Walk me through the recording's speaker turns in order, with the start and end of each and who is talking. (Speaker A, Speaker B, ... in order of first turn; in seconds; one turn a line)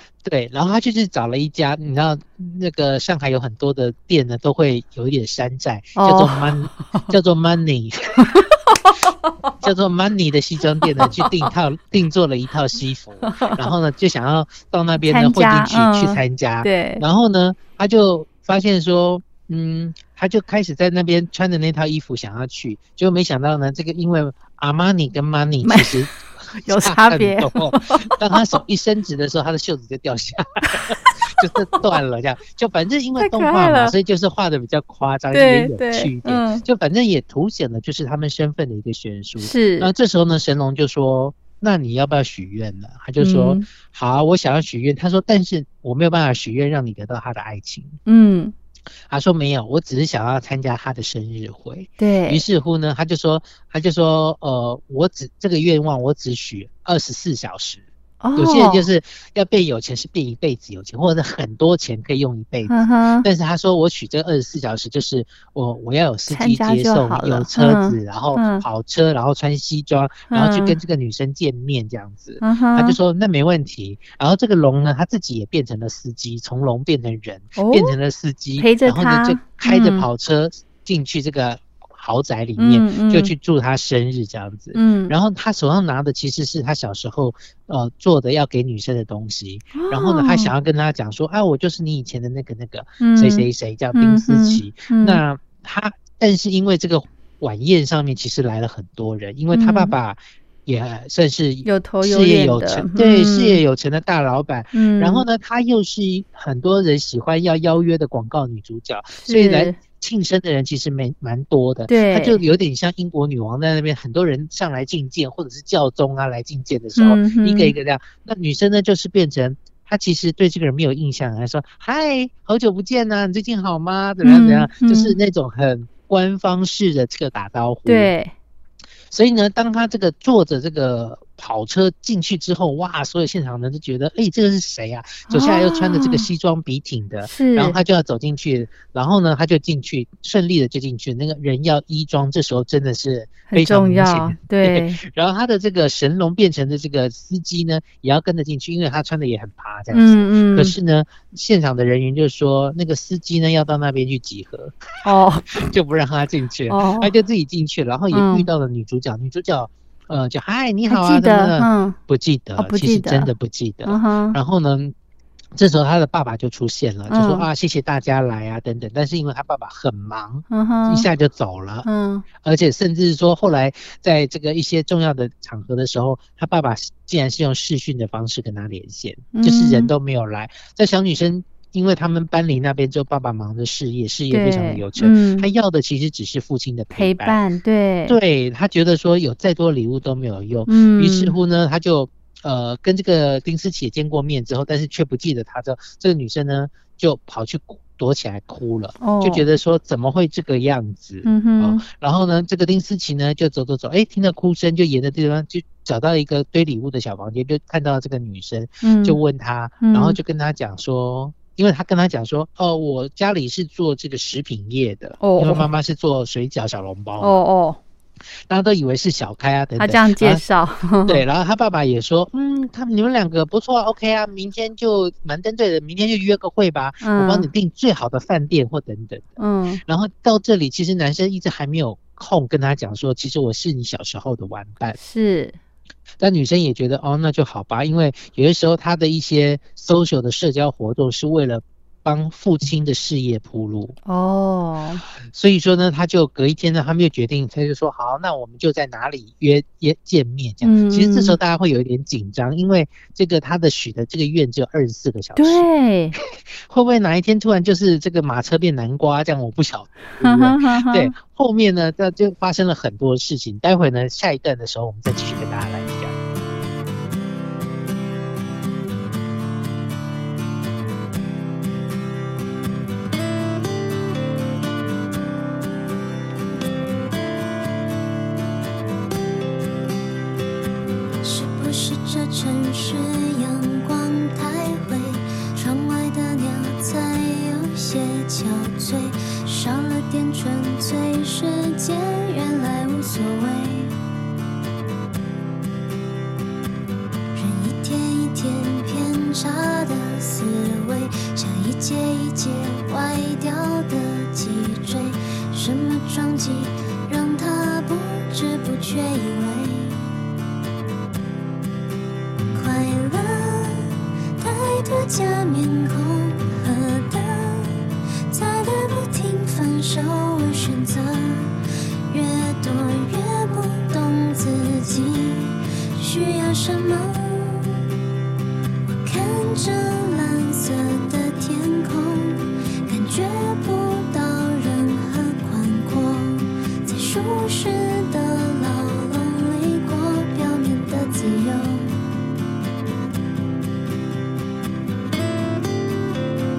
Speaker A: 0.2-8.2
Speaker B: 6.0-7.1
Speaker B: 8.2-9.5
Speaker A: 9.6-48.0
Speaker B: 11.0-11.5
Speaker B: 13.2-13.7
Speaker B: 15.0-17.0
Speaker B: 25.6-26.1
Speaker B: 26.6-28.6
Speaker B: 30.7-31.4
Speaker B: 33.2-34.0
Speaker B: 35.3-36.6
Speaker B: 39.4-39.9
Speaker B: 43.2-43.6
Speaker B: 48.0-48.5
Speaker A: 49.1-57.8
Speaker B: 52.0-52.4
Speaker B: 58.2-58.9
Speaker A: 58.3-128.1
Speaker B: 62.7-63.3
Speaker B: 66.3-68.6
Speaker B: 70.3-70.8
Speaker B: 72.4-73.0
Speaker B: 77.5-78.0
Speaker B: 78.6-80.1
Speaker B: 82.6-83.3
Speaker B: 84.7-85.1
Speaker B: 89.7-90.5
Speaker B: 93.0-95.2
Speaker B: 99.5-99.9
Speaker B: 101.6-103.6
Speaker B: 104.7-105.2
Speaker B: 109.2-109.8
Speaker B: 111.9-112.4
Speaker B: 117.0-117.7
Speaker B: 124.2-125.2
Speaker B: 127.8-128.3
Speaker A: 129.1-154.8
Speaker B: 135.3-136.3
Speaker B: 137.2-137.8
Speaker B: 143.5-145.0
Speaker B: 149.9-150.8
Speaker B: 155.0-155.6
Speaker A: 155.6-164.9
Speaker B: 156.7-157.1
Speaker B: 158.1-158.5
Speaker B: 160.9-162.0
Speaker B: 162.6-163.3
Speaker B: 163.8-164.4
Speaker A: 165.5-171.9
Speaker B: 167.1-167.5
Speaker B: 170.5-171.1
Speaker B: 171.8-172.2
Speaker A: 172.4-187.4
Speaker B: 179.3-179.9
Speaker B: 184.3-185.5
Speaker B: 186.9-188.2
Speaker A: 188.1-217.4
Speaker B: 190.7-191.3
Speaker B: 199.0-199.4
Speaker B: 201.2-201.8
Speaker B: 208.8-209.2
Speaker B: 209.8-210.2
Speaker B: 215.2-215.7
Speaker B: 217.2-217.8
Speaker A: 218.5-220.4
Speaker B: 219.8-221.2
Speaker A: 221.1-235.0
Speaker B: 227.0-227.5
Speaker B: 229.4-229.8
Speaker B: 235.0-235.6
Speaker A: 236.2-244.0
Speaker B: 244.1-245.0
Speaker A: 245.3-255.7
Speaker B: 250.6-251.4
Speaker B: 255.3-256.1
Speaker A: 256.7-266.1
Speaker B: 260.2-261.1
Speaker C: 281.2-293.9
Speaker C: 297.3-310.1
Speaker C: 312.5-327.9
Speaker C: 328.9-342.0